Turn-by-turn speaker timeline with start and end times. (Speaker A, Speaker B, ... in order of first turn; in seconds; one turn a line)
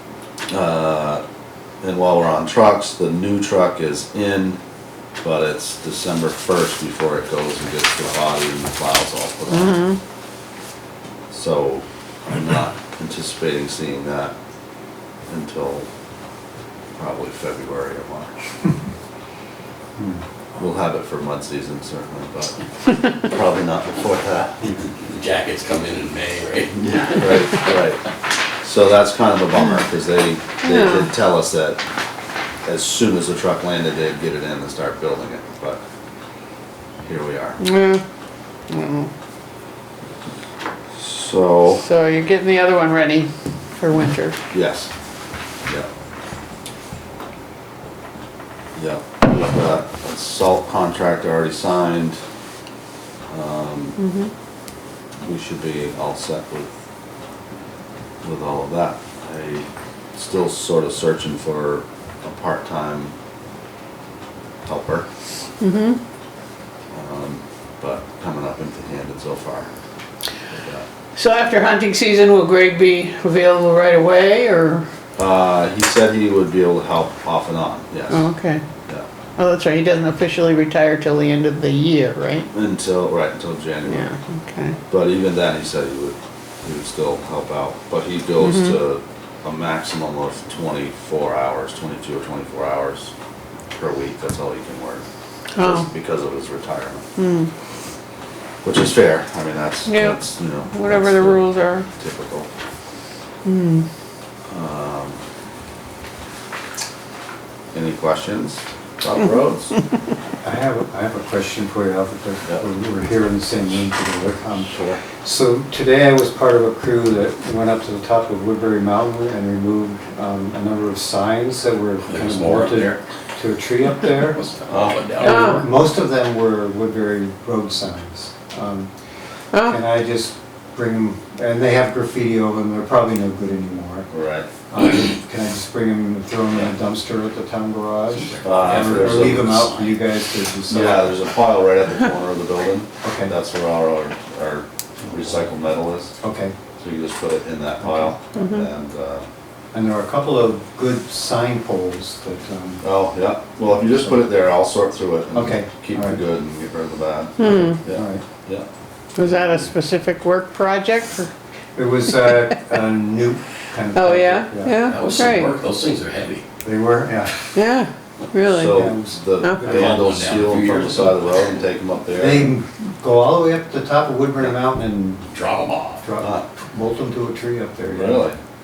Speaker A: 0.5-1.2
Speaker A: 1.8-4.6
Speaker A: 5.2-9.8
Speaker B: 9.5-10.0
Speaker A: 11.3-14.3
Speaker A: 15.3-15.9
Speaker A: 17.0-18.5
Speaker A: 20.6-22.6
Speaker A: 23.1-24.9
Speaker C: 25.0-27.6
Speaker A: 26.8-28.0
Speaker A: 28.6-31.8
Speaker B: 30.6-31.1
Speaker A: 32.6-35.8
Speaker A: 37.0-37.6
Speaker B: 37.6-38.0
Speaker B: 38.7-39.1
Speaker A: 41.0-41.8
Speaker B: 41.8-44.4
Speaker A: 44.5-44.9
Speaker A: 48.8-52.2
Speaker A: 53.3-54.0
Speaker B: 54.0-54.3
Speaker A: 55.2-56.7
Speaker A: 58.2-63.1
Speaker A: 64.6-65.1
Speaker B: 65.6-66.0
Speaker A: 66.9-69.7
Speaker A: 70.5-70.9
Speaker B: 71.2-74.9
Speaker A: 75.2-78.3
Speaker B: 78.1-78.6
Speaker B: 79.4-82.5
Speaker A: 82.5-84.1
Speaker B: 83.9-84.8
Speaker A: 84.9-93.1
Speaker B: 88.4-88.8
Speaker A: 93.7-95.0
Speaker B: 95.5-95.9
Speaker A: 95.6-97.0
Speaker B: 97.2-97.5
Speaker A: 98.6-102.5
Speaker B: 99.9-101.9
Speaker B: 103.5-103.9
Speaker A: 104.5-105.2
Speaker A: 107.7-109.8
Speaker D: 110.4-124.4
Speaker A: 114.7-115.0
Speaker C: 122.0-123.0
Speaker C: 124.2-125.5
Speaker A: 124.7-125.1
Speaker D: 125.2-128.9
Speaker B: 125.2-125.7
Speaker B: 129.5-129.8
Speaker D: 129.7-134.1
Speaker A: 134.1-134.5
Speaker D: 134.7-141.2
Speaker C: 138.1-140.0
Speaker A: 138.4-139.7
Speaker A: 140.7-146.2
Speaker D: 143.0-143.3
Speaker D: 146.2-146.6
Speaker A: 146.8-149.3
Speaker D: 147.8-148.2
Speaker D: 149.7-152.9
Speaker A: 152.8-158.7
Speaker D: 153.9-154.2
Speaker D: 155.3-156.2
Speaker B: 157.4-157.8
Speaker D: 157.5-158.2
Speaker B: 159.2-161.3
Speaker A: 159.2-159.7
Speaker D: 161.8-164.8
Speaker B: 163.9-165.5
Speaker C: 164.9-166.4
Speaker D: 166.6-167.5
Speaker B: 167.5-168.8
Speaker A: 168.5-172.6
Speaker D: 168.7-170.0
Speaker B: 169.4-169.7
Speaker C: 169.7-171.4
Speaker D: 172.2-175.2
Speaker C: 175.3-176.0
Speaker D: 176.0-178.3
Speaker A: 176.2-176.5
Speaker A: 177.9-178.4